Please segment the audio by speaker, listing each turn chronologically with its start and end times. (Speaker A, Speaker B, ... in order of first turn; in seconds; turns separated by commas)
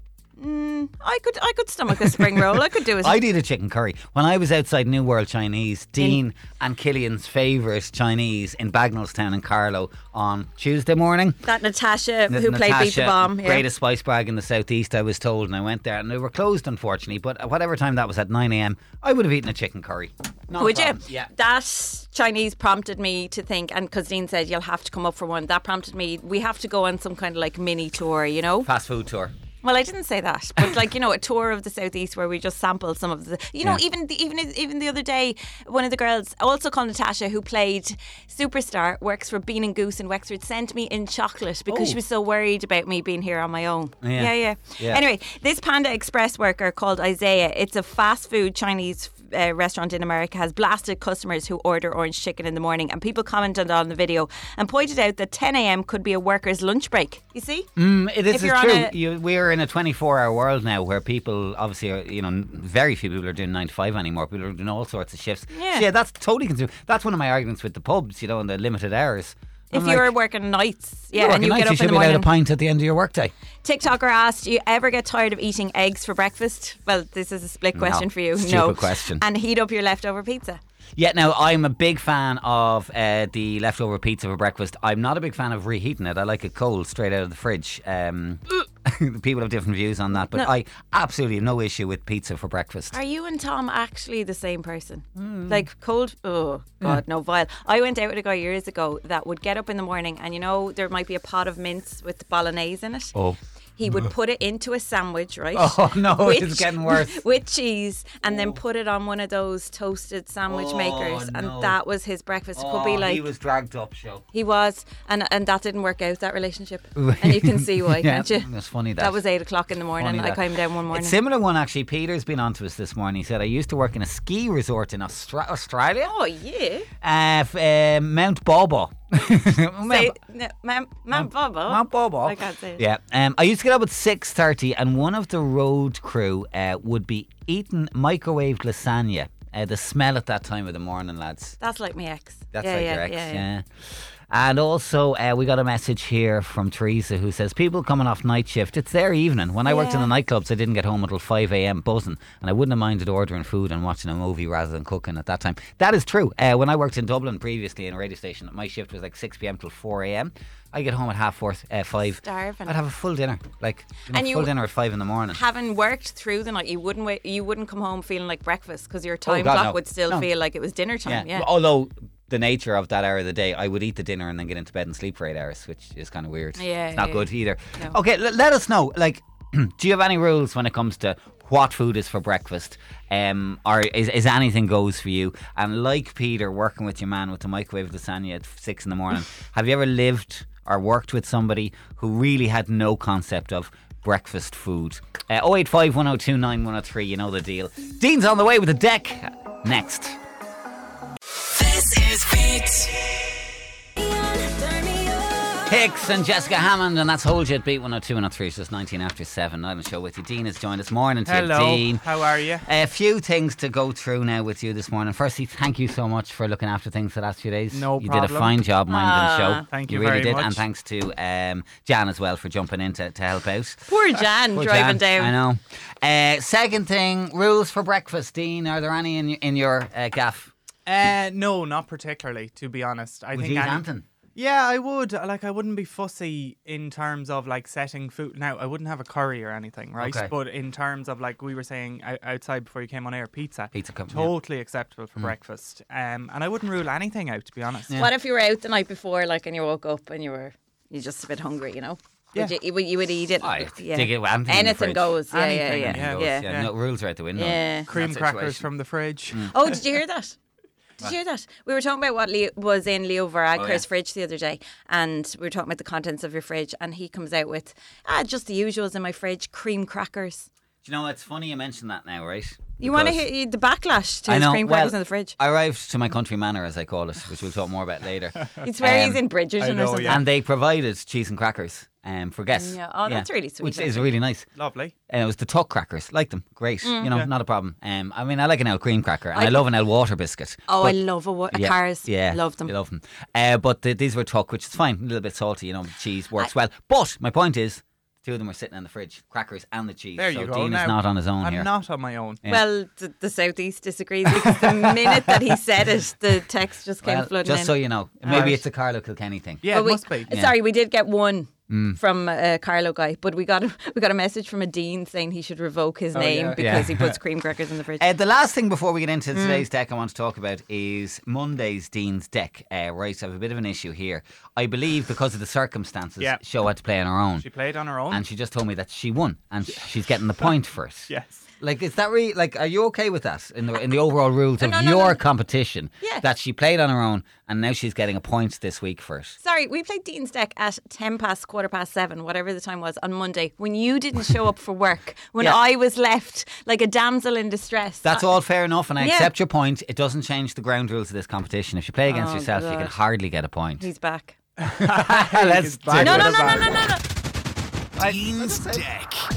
Speaker A: 0.4-3.2, Speaker B: 1.9-11.4, Speaker A: 11.4-13.7, Speaker B: 12.3-21.3, Speaker A: 20.6-28.7, Speaker B: 28.6-29.3, Speaker A: 29.6-57.7, Speaker B: 41.7-42.0, Speaker B: 44.0-45.0, Speaker B: 57.8-70.1, Speaker A: 58.3-58.9, Speaker A: 65.5-65.8, Speaker A: 69.7-72.3, Speaker B: 71.1-73.3, Speaker A: 73.6-80.6, Speaker B: 77.7-79.2, Speaker B: 81.0-93.0, Speaker A: 92.9-103.2, Speaker B: 95.2-95.7, Speaker B: 103.1-104.1, Speaker A: 103.8-113.2, Speaker B: 105.5-107.2, Speaker B: 108.2-108.6, Speaker B: 110.5-111.8, Speaker B: 112.5-114.2, Speaker A: 114.3-121.1, Speaker B: 117.0-119.2, Speaker B: 120.0-126.1, Speaker A: 126.0-126.9, Speaker B: 127.0-130.2, Speaker A: 129.9-132.8, Speaker B: 131.1-141.6, Speaker A: 141.6-143.4, Speaker B: 142.5-143.7, Speaker B: 144.3-165.4, Speaker A: 149.7-150.1, Speaker A: 162.2-162.8, Speaker A: 164.1-164.5, Speaker A: 165.3-171.5, Speaker B: 169.2-170.3, Speaker B: 171.0-200.2, Speaker A: 176.6-177.9, Speaker C: 201.5-203.1, Speaker A: 204.0-205.6, Speaker B: 205.7-212.0, Speaker D: 211.2-212.7, Speaker B: 212.7-230.5, Speaker D: 217.7-218.5, Speaker A: 218.9-219.6, Speaker D: 219.7-220.6, Speaker A: 223.9-225.3, Speaker D: 230.8-233.8, Speaker B: 233.3-234.0, Speaker D: 234.3-247.9, Speaker B: 240.0-240.3, Speaker B: 243.7-244.3, Speaker A: 247.9-256.4, Speaker B: 253.4-255.2, Speaker D: 255.3-256.7, Speaker B: 255.8-258.7, Speaker A: 257.4-257.9, Speaker D: 257.9-259.5, Speaker A: 259.5-260.4, Speaker A: 261.0-270.5, Speaker B: 263.5-263.8, Speaker B: 270.8-273.2, Speaker A: 272.8-275.4, Speaker B: 274.2-279.2, Speaker A: 278.6-280.2, Speaker D: 279.6-280.2, Speaker B: 280.0-284.5, Speaker A: 282.5-284.1, Speaker D: 284.6-284.9, Speaker B: 285.1-291.0, Speaker A: 286.8-287.1, Speaker A: 289.3-289.7, Speaker A: 290.7-292.7, Speaker B: 291.5-301.7, Speaker D: 300.1-302.4, Speaker A: 302.4-308.5, Speaker B: 304.4-305.3, Speaker B: 307.0-310.5, Speaker D: 308.3-308.6, Speaker D: 309.6-310.3, Speaker A: 309.7-318.0, Speaker B: 311.7-312.0, Speaker D: 316.2-316.6, Speaker B: 316.5-317.1, Speaker B: 318.0-327.5, Speaker A: 319.3-319.6, Speaker D: 327.4-328.2, Speaker B: 328.1-339.4, Speaker D: 331.1-331.4, Speaker A: 334.6-335.2, Speaker A: 339.4-348.3, Speaker B: 348.0-353.9, Speaker A: 349.0-349.3, Speaker A: 352.1-352.9, Speaker A: 353.8-354.4, Speaker D: 354.6-356.8, Speaker B: 354.7-356.8, Speaker A: 356.0-357.0, Speaker B: 358.0-358.9, Speaker C: 358.0-359.1